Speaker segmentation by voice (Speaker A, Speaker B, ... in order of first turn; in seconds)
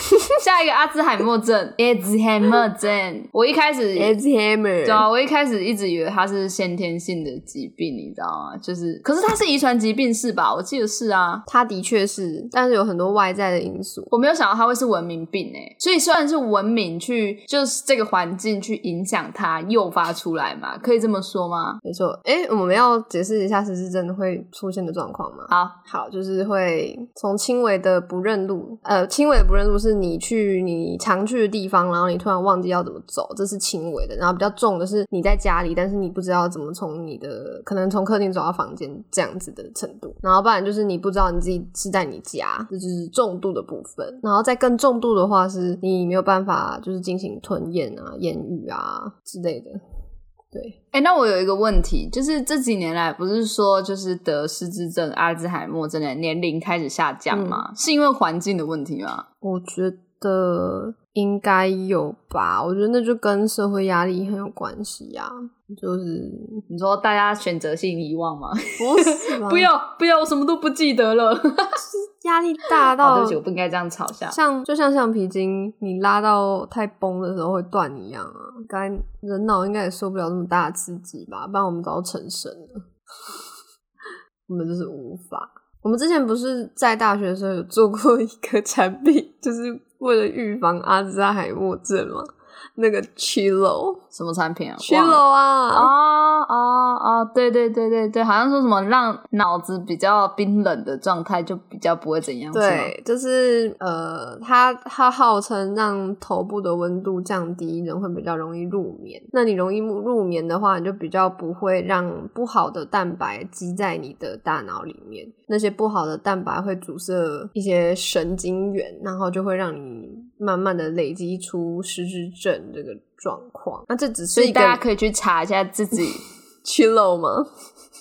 Speaker A: 0.3-4.2, 4.8-11.4, 14.1-21.8, 25.5-25.8, 50.9-59.2, 66.7-71.8, 72.8-74.4, 94.1-95.2, 95.7-102.9, 124.3-126.2
Speaker B: 4.0-5.1, 11.5-14.1, 21.8-49.8, 57.3-57.6, 59.4-66.6, 68.8-69.7, 72.1-73.4, 74.3-82.9, 84.5-94.0, 94.8-95.9, 102.5-124.8, 126.6-127.5